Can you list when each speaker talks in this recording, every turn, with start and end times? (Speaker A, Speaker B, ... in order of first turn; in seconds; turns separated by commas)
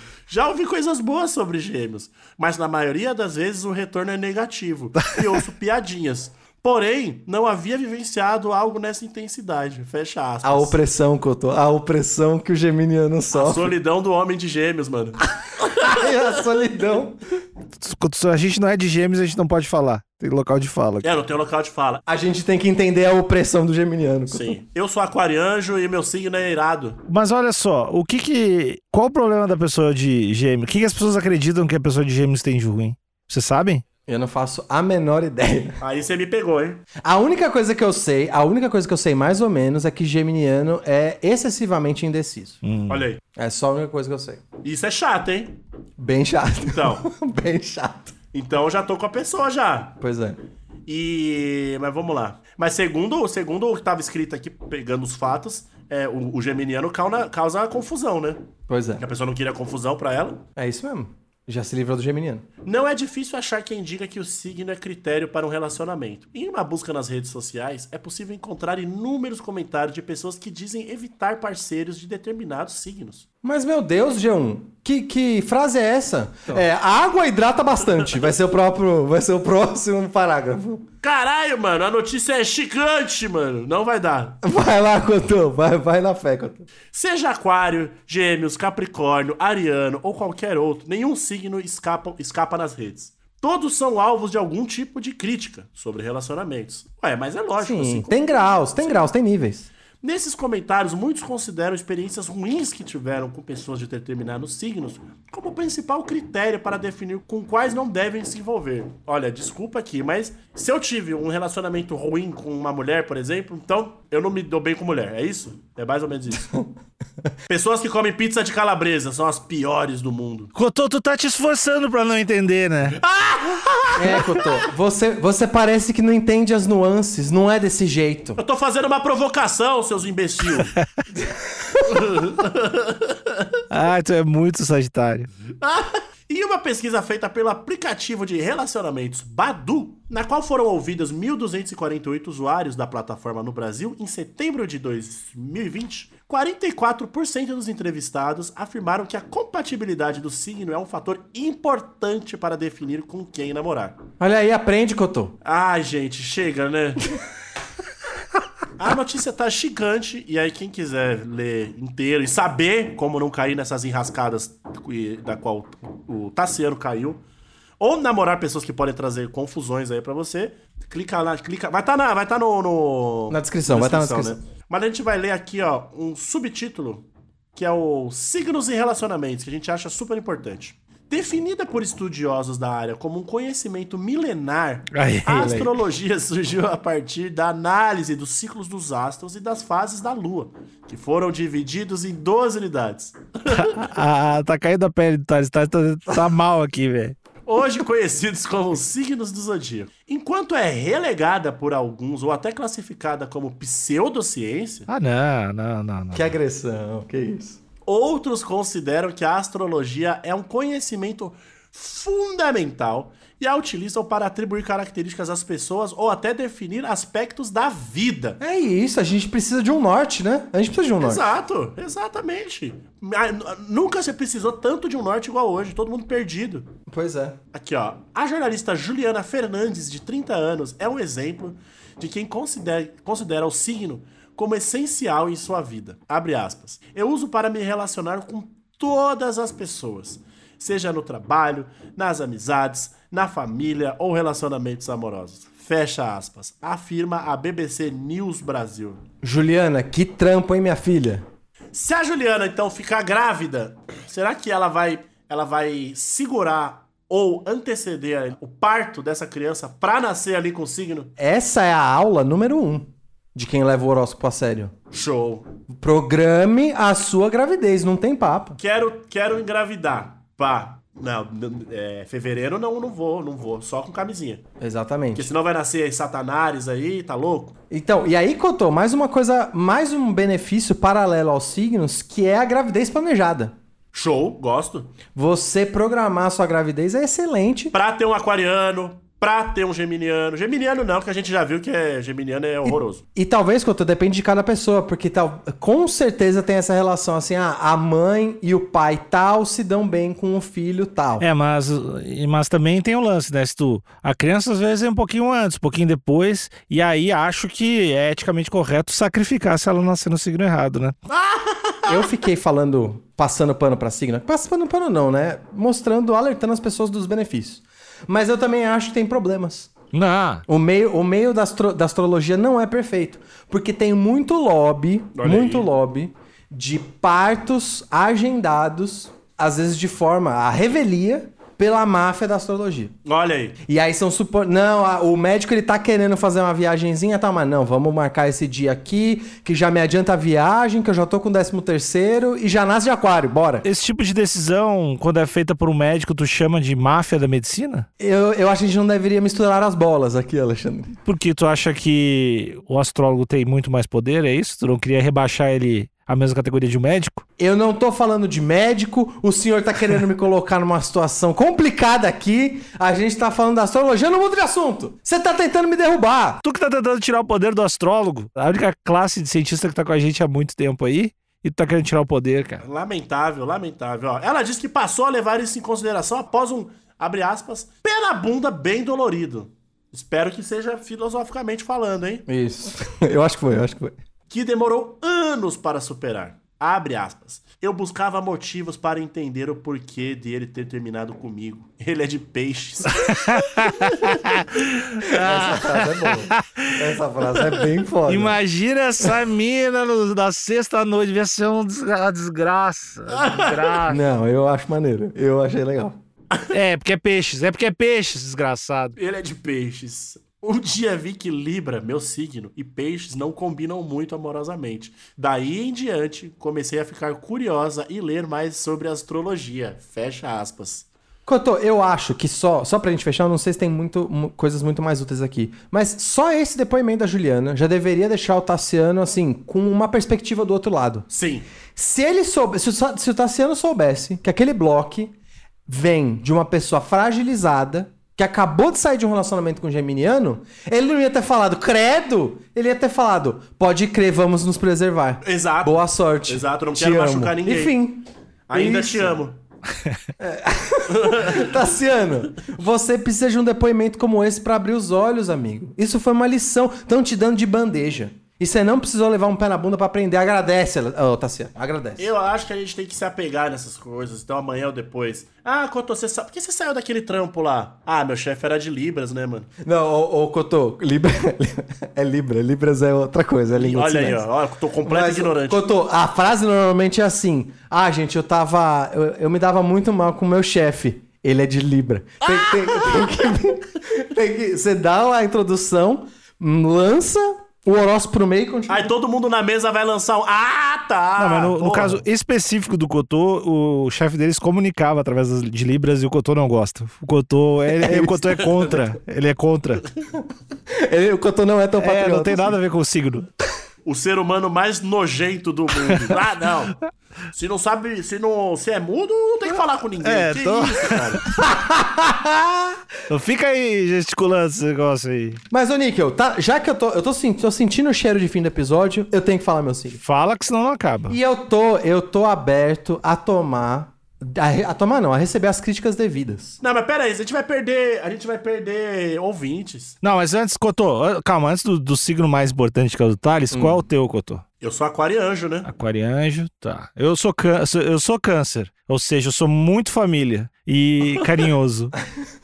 Speaker A: 0.3-10.8, Speaker B: 10.4-13.7, Speaker A: 13.3-16.1, Speaker B: 15.8-17.2, Speaker C: 17.8-21.1, Speaker A: 21.0-22.0, Speaker B: 22.1-24.6, Speaker A: 24.3-27.0, Speaker C: 27.1-33.8, Speaker B: 34.1-35.8, Speaker A: 35.8-36.8, Speaker B: 37.0-42.6, Speaker C: 42.6-43.0, Speaker A: 42.9-43.2, Speaker B: 43.4-44.4, Speaker A: 44.6-45.6, Speaker B: 46.0-48.1, Speaker A: 46.6-47.0, Speaker A: 48.3-50.0, Speaker B: 50.0-50.4, Speaker A: 50.9-58.4, Speaker B: 58.7-59.0, Speaker A: 59.0-60.4, Speaker B: 60.6-62.4, Speaker A: 62.6-73.2, Speaker B: 73.4-80.8, Speaker A: 81.0-84.4, Speaker B: 84.4-86.7, Speaker A: 86.9-99.1, Speaker B: 97.6-99.7, Speaker A: 100.0-116.4, Speaker A: 117.5-120.5, Speaker C: 120.5-123.0, Speaker A: 123.0-124.5, Speaker B: 124.0-128.4, Speaker A: 128.4-130.7, Speaker A: 131.8-133.6, Speaker C: 133.7-135.3, Speaker A: 135.5-154.0, Speaker B: 154.2-155.3, Speaker A: 155.4-157.1, Speaker A: 158.8-167.2, Speaker A: 167.8-193.7, Speaker B: 173.3-174.4, Speaker C: 184.9-185.7, Speaker C: 193.5-197.1, Speaker A: 197.5-204.9, Speaker C: 204.9-206.3, Speaker B: 206.1-207.6, Speaker A: 207.9-218.4, Speaker B: 218.4-221.3, Speaker A: 221.0-226.7, Speaker B: 226.9-227.4, Speaker A: 227.5-249.0, Speaker B: 249.2-251.2, Speaker A: 251.7-261.1, Speaker B: 261.2-264.7, Speaker A: 264.9-265.5, Speaker B: 265.7-268.6, Speaker A: 268.6-274.4, Speaker B: 274.6-275.3, Speaker A: 275.1-277.5, Speaker B: 277.7-283.5, Speaker A: 283.9-284.9, Speaker B: 285.1-287.8, Speaker A: 287.7-293.0, Speaker B: 292.6-301.2, Speaker C: 301.2-311.0, Speaker A: 311.1-311.8, Speaker B: 311.9-319.7, Speaker C: 319.9-320.4, Speaker B: 320.5-332.9, Speaker A: 325.1-325.7, Speaker A: 333.0-333.6, Speaker B: 333.7-343.6, Speaker C: 343.6-347.9, Speaker B: 348.0-350.9, Speaker C: 351.1-357.2, Speaker B: 357.4-366.4, Speaker C: 366.4-372.6, Speaker A: 372.6-382.2, Speaker B: 382.3-383.9, Speaker A: 384.3-393.9, Speaker C: 393.0-396.9, Speaker B: 395.0-398.4, Speaker C: 398.1-404.0, Speaker A: 403.1-403.8, Speaker B: 403.9-405.9, Speaker C: 406.5-408.9, Speaker A: 409.0-420.9, Speaker B: 421.2-431.1, Speaker A: 431.1-431.4, Speaker B: 431.8-435.1, Speaker B: 435.7-449.2, Speaker A: 445.2-447.8, Speaker A: 448.5-449.4, Speaker B: 450.2-462.1, Speaker A: 450.9-451.4, Speaker A: 462.0-469.5, Speaker B: 469.6-474.2, Speaker A: 473.5-475.7, Speaker B: 474.8-488.9, Speaker A: 482.4-483.0, Speaker A: 488.7-492.0, Speaker C: 491.2-499.9, Speaker B: 497.8-498.3, Speaker B: 500.7-502.6, Speaker C: 501.8-503.2, Speaker A: 503.9-506.8, Speaker A: 507.3-511.2, Speaker C: 510.0-511.2, Speaker B: 511.4-512.7, Speaker C: 513.1-515.4, Speaker B: 515.5-520.0, Speaker C: 520.0-521.2, Speaker B: 521.1-526.6, Speaker A: 526.6-530.0, Speaker C: 530.0-534.4, Speaker B: 533.5-533.8, Speaker A: 534.6-535.7, Speaker C: 535.6-541.9